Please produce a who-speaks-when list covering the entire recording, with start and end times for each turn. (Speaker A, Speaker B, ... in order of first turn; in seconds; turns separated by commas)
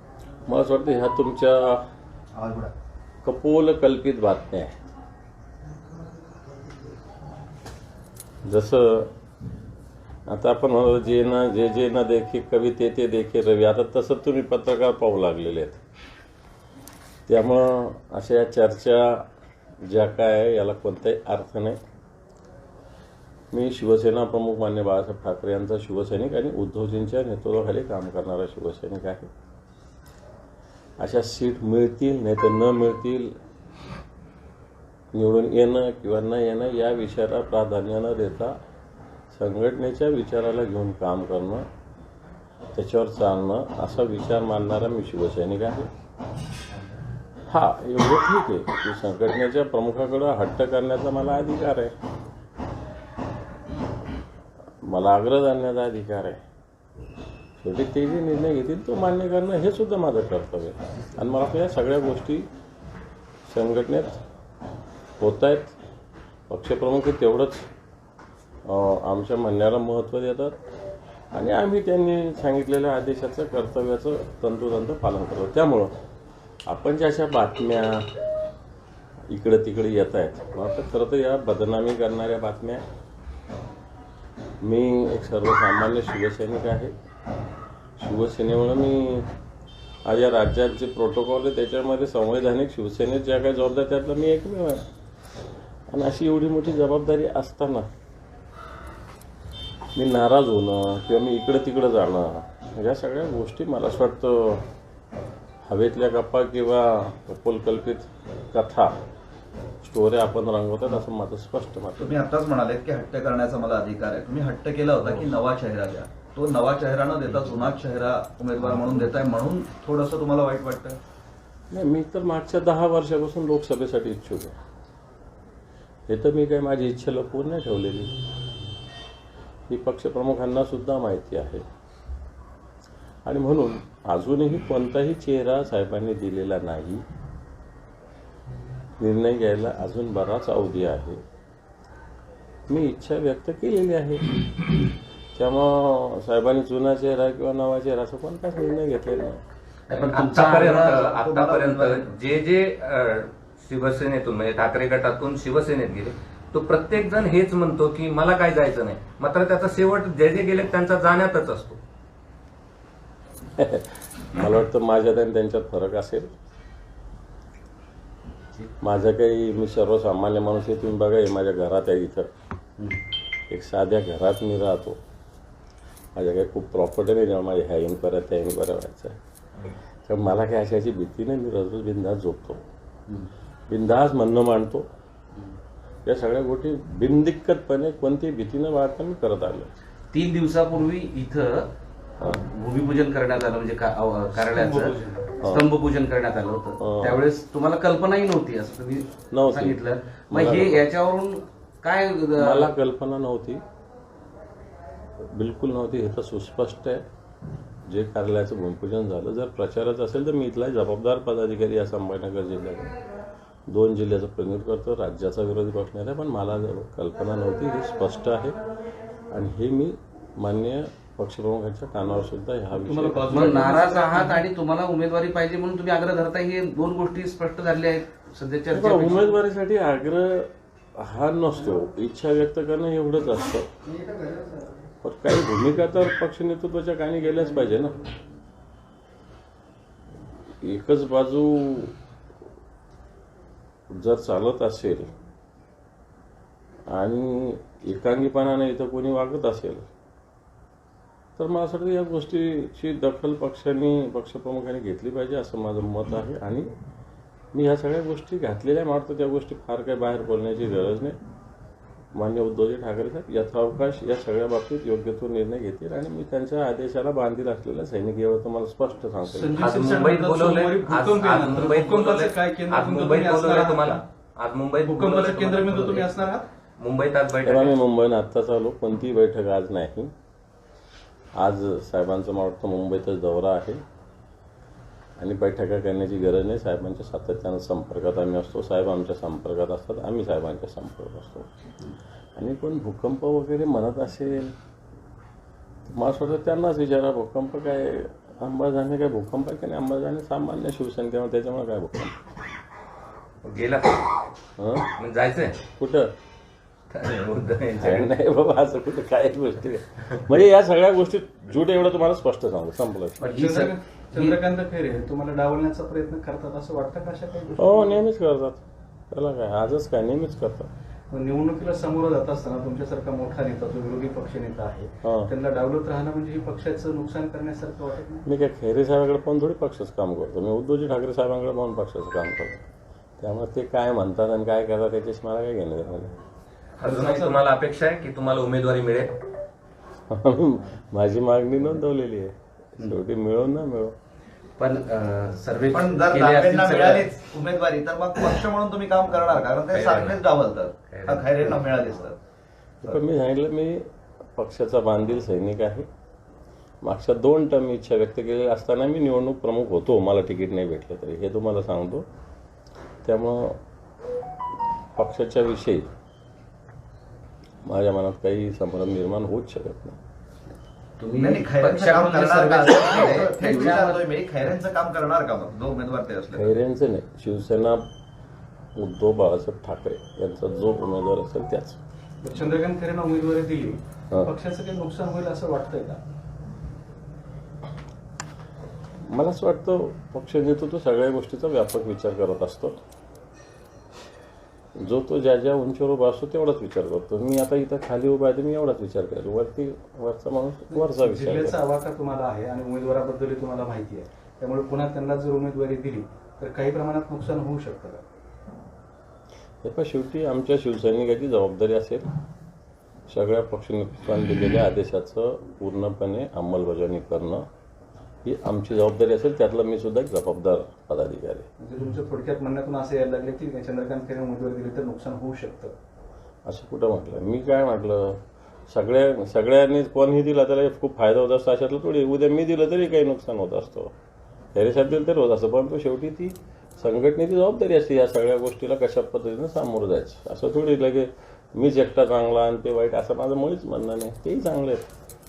Speaker A: 0.5-1.8, Speaker B: 2.3-2.7, Speaker A: 3.2-4.7, Speaker A: 8.5-9.1, Speaker A: 10.3-15.8, Speaker A: 17.3-19.2, Speaker A: 19.9-21.8, Speaker A: 23.5-29.3, Speaker A: 31.0-33.3, Speaker A: 35.1-38.5, Speaker A: 39.3-41.7, Speaker A: 42.7-45.9, Speaker A: 47.5-51.9, Speaker A: 54.8-56.4, Speaker A: 57.6-62.5, Speaker A: 63.5-64.2, Speaker A: 65.2-65.7, Speaker A: 66.5-67.7, Speaker A: 68.7-70.6, Speaker A: 71.3-75.9, Speaker A: 76.7-78.1, Speaker A: 79.3-82.8, Speaker A: 84.6-86.9, Speaker A: 88.0-89.3, Speaker A: 90.0-94.8, Speaker A: 95.9-97.9, Speaker A: 99.9-104.6, Speaker A: 105.7-109.0, Speaker A: 109.8-112.2, Speaker B: 112.0-121.0, Speaker A: 121.7-124.6, Speaker A: 126.1-128.1, Speaker A: 129.7-131.6, Speaker A: 133.2-137.0, Speaker A: 139.0-141.2, Speaker A: 142.7-144.2, Speaker A: 145.4-149.4, Speaker C: 149.9-161.8, Speaker D: 150.2-150.6, Speaker B: 150.8-152.2, Speaker A: 163.6-166.3, Speaker A: 168.8-172.3, Speaker A: 173.5-175.0, Speaker A: 176.2-179.2, Speaker A: 180.1-182.6, Speaker A: 183.7-184.9, Speaker A: 186.1-189.7, Speaker D: 190.2-191.6, Speaker D: 192.6-195.0, Speaker E: 194.3-195.4, Speaker A: 195.4-195.7, Speaker D: 195.6-202.7, Speaker A: 196.8-197.2, Speaker A: 199.3-199.8, Speaker A: 200.3-200.8, Speaker A: 202.4-203.6, Speaker A: 205.2-207.0, Speaker A: 207.9-212.9, Speaker A: 213.7-218.6, Speaker A: 219.3-223.7, Speaker E: 222.8-224.5, Speaker D: 223.6-229.2, Speaker A: 228.7-233.7, Speaker A: 235.0-238.0, Speaker A: 240.6-241.9, Speaker A: 243.9-245.1, Speaker A: 246.9-249.9, Speaker A: 251.4-256.7, Speaker A: 257.5-261.2, Speaker A: 262.1-269.7, Speaker E: 269.2-274.0, Speaker C: 269.6-276.1, Speaker E: 274.8-276.4, Speaker C: 276.8-277.8, Speaker A: 277.4-280.1, Speaker A: 281.4-283.8, Speaker A: 285.2-291.5, Speaker A: 292.4-294.5, Speaker A: 295.9-302.2, Speaker C: 303.4-304.2, Speaker A: 304.6-304.9, Speaker C: 304.9-305.6, Speaker A: 305.8-306.1, Speaker C: 306.9-308.1, Speaker A: 307.8-313.2, Speaker D: 313.2-314.3, Speaker E: 313.3-318.0, Speaker A: 317.6-320.7, Speaker E: 321.1-328.3, Speaker A: 325.0-325.3, Speaker A: 328.2-332.6, Speaker A: 333.2-336.1, Speaker C: 336.8-339.1, Speaker E: 336.8-337.4, Speaker A: 340.1-343.9, Speaker D: 344.6-347.1, Speaker B: 345.7-352.2, Speaker C: 349.7-350.2, Speaker C: 350.9-351.4, Speaker A: 352.8-355.9, Speaker A: 356.8-362.1, Speaker A: 363.0-363.6, Speaker A: 364.9-365.9, Speaker A: 367.6-370.0, Speaker D: 371.0-373.8, Speaker B: 371.2-376.5, Speaker A: 376.3-377.9, Speaker A: 378.8-381.8, Speaker E: 382.2-386.0, Speaker A: 389.1-392.8, Speaker A: 394.8-401.6, Speaker E: 400.7-408.0, Speaker A: 409.6-412.1, Speaker A: 413.1-417.4, Speaker A: 418.2-421.4, Speaker E: 421.6-425.8, Speaker A: 426.4-428.2, Speaker A: 428.7-433.9, Speaker A: 434.5-444.9